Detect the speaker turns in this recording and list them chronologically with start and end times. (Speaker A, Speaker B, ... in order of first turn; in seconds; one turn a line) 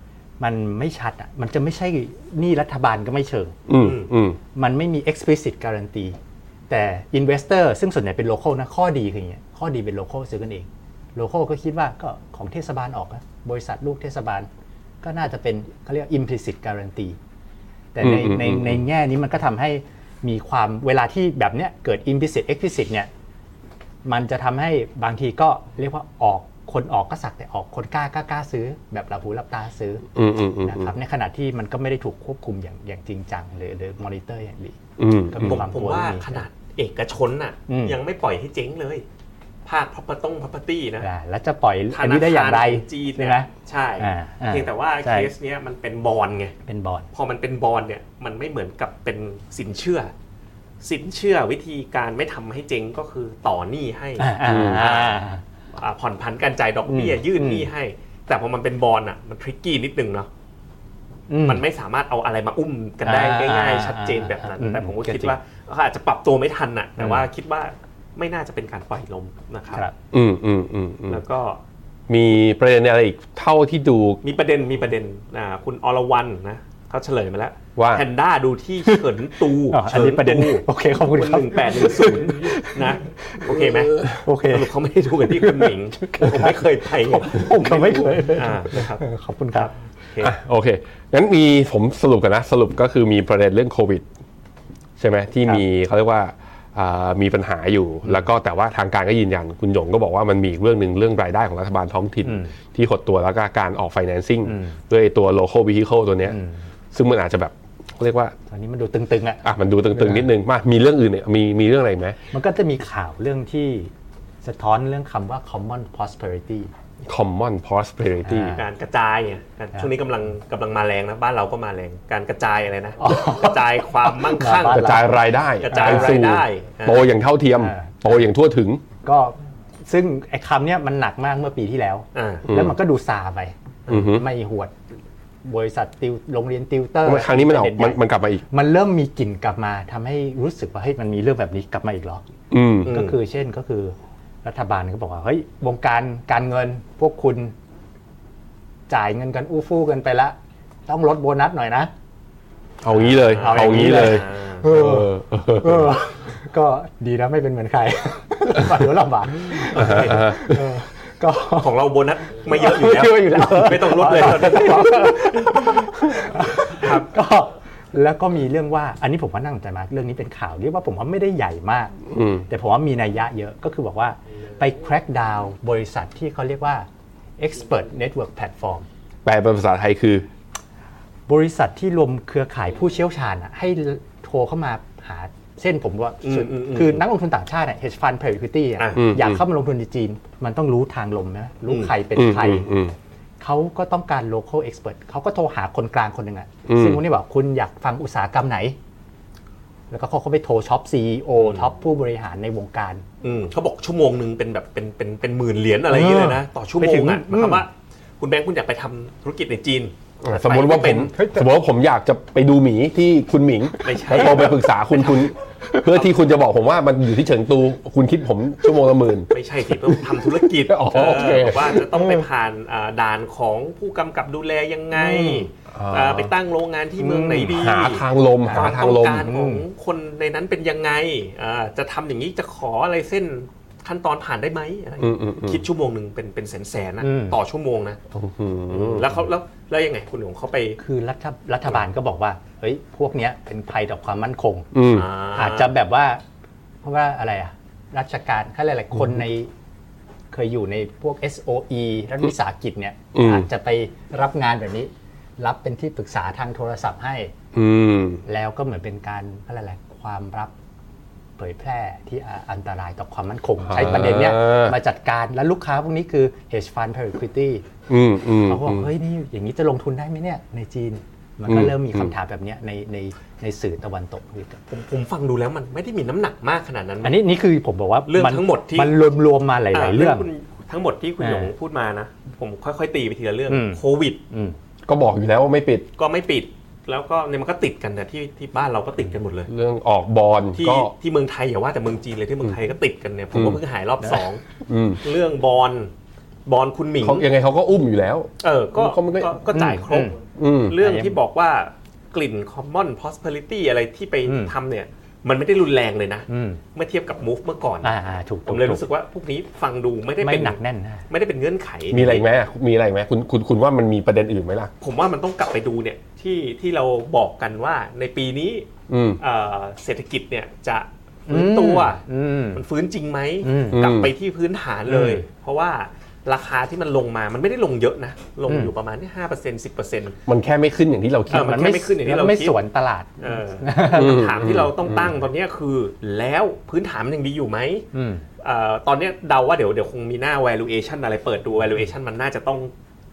Speaker A: 0.4-3.6
Speaker B: 3.7-4.4
Speaker C: 3.8-4.1
Speaker A: 4.5-6.2
Speaker A: 6.7-14.5
Speaker A: 15.0-17.2
Speaker A: 17.9-23.1
Speaker B: 18.0-18.8
Speaker A: 24.0-30.1
Speaker B: 30.1-30.9
Speaker A: 30.6-36.5
Speaker B: 35.0-35.6
Speaker C: 35.4-39.0
Speaker A: 37.7-38.0
Speaker C: 39.6-41.1
Speaker A: 41.0-45.3
Speaker C: 41.9-46.5
Speaker A: 46.6-47.1
Speaker C: 47.1-50.1
Speaker C: 50.8-55.2
Speaker A: 54.2-55.4
Speaker B: 54.4-54.8
Speaker C: 55.8-60.3
Speaker A: 56.9-57.7
Speaker A: 61.3-61.6
Speaker C: 61.4-69.8
Speaker A: 63.0-65.3
Speaker A: 67.0-67.3
Speaker B: 70.1-71.2
Speaker C: 71.1-71.6
Speaker B: 72.1-74.2
Speaker C: 74.2-89.0
Speaker B: 77.8-78.0
Speaker A: 78.8-79.1
Speaker A: 79.7-84.7
Speaker A: 85.2-89.7
Speaker C: 89.5-90.3
Speaker B: 90.2-94.0
Speaker B: 95.0-106.4
Speaker A: 102.2-102.5
Speaker A: 104.4-104.8
Speaker A: 106.3-106.7
Speaker B: 106.9-108.3
Speaker A: 108.5-109.4
Speaker B: 109.4-112.2
Speaker A: 109.9-110.3
Speaker A: 112.3-113.9
Speaker A: 114.4-116.7
Speaker B: 117.0-118.6
Speaker A: 118.2-118.6
Speaker C: 118.5-125.0
Speaker A: 123.0-126.2
Speaker B: 124.7-128.8
Speaker C: 125.6-127.1
Speaker A: 127.6-128.2
Speaker A: 129.0-134.8
Speaker C: 132.1-132.4
Speaker B: 132.5-132.8
Speaker B: 133.9-134.2
Speaker A: 135.4-142.2
Speaker B: 137.0-138.4
Speaker B: 142.5-142.9
Speaker A: 142.8-147.5
Speaker C: 142.9-143.2
Speaker A: 148.9-150.3
Speaker A: 150.9-151.9
Speaker B: 152.8-156.0
Speaker A: 152.9-161.8
Speaker C: 153.0-154.7
Speaker C: 159.5-160.3
Speaker B: 159.7-160.7
Speaker C: 161.5-165.2
Speaker A: 162.5-171.9
Speaker C: 166.7-167.1
Speaker B: 172.1-172.4
Speaker A: 172.5-176.9
Speaker A: 177.4-178.9
Speaker B: 179.2-180.3
Speaker A: 181.3-192.7
Speaker C: 186.2-187.0
Speaker B: 188.9-189.4
Speaker B: 192.1-192.9
Speaker A: 193.4-198.8
Speaker B: 196.7-197.0
Speaker A: 199.9-203.0
Speaker C: 201.4-201.7
Speaker C: 203.2-211.2
Speaker A: 205.9-207.6
Speaker B: 210.2-221.9
Speaker A: 211.1-211.4
Speaker C: 213.8-215.3
Speaker C: 219.3-238.0
Speaker A: 224.9-225.5
Speaker B: 225.7-226.3
Speaker A: 227.0-227.5
Speaker B: 227.5-229.3
Speaker A: 228.4-229.7
Speaker B: 235.0-235.6
Speaker A: 237.0-237.4
Speaker B: 238.1-239.1
Speaker C: 238.7-240.8
Speaker A: 240.8-244.7
Speaker B: 244.7-245.1
Speaker C: 244.9-245.7
Speaker A: 245.3-246.2
Speaker A: 246.8-249.5
Speaker A: 250.3-257.3
Speaker B: 253.1-253.5
Speaker B: 257.5-258.2
Speaker A: 258.2-260.5
Speaker A: 261.4-267.6
Speaker B: 263.6-264.8
Speaker B: 267.9-268.9
Speaker A: 268.4-274.6
Speaker B: 271.5-272.1
Speaker C: 274.7-277.2
Speaker A: 277.0-280.3
Speaker C: 278.1-278.9
Speaker C: 279.7-284.2
Speaker A: 281.2-281.5
Speaker A: 283.5-284.6
Speaker B: 284.9-285.9
Speaker C: 286.0-289.5
Speaker B: 289.5-290.9
Speaker C: 290.6-294.4
Speaker B: 293.3-293.6
Speaker B: 294.7-295.0
Speaker C: 295.0-295.9
Speaker C: 296.4-297.2
Speaker B: 297.0-299.4
Speaker C: 298.4-307.9
Speaker A: 299.5-300.2
Speaker B: 300.3-300.8
Speaker A: 300.8-301.2
Speaker A: 304.2-304.5
Speaker A: 306.3-306.6
Speaker A: 307.8-308.8
Speaker C: 308.5-310.6
Speaker A: 310.2-311.1
Speaker C: 311.1-312.2
Speaker B: 311.9-314.7
Speaker C: 314.8-318.7
Speaker B: 318.9-319.2
Speaker C: 319.2-322.0
Speaker A: 321.3-322.6
Speaker C: 322.5-330.2
Speaker A: 323.4-323.9
Speaker B: 323.7-324.1
Speaker A: 324.9-325.2
Speaker A: 328.5-328.7
Speaker B: 330.3-331.6
Speaker C: 331.3-332.6
Speaker A: 331.3-334.3
Speaker C: 333.2-337.9
Speaker B: 333.9-335.1
Speaker A: 337.9-338.2
Speaker C: 338.4-342.7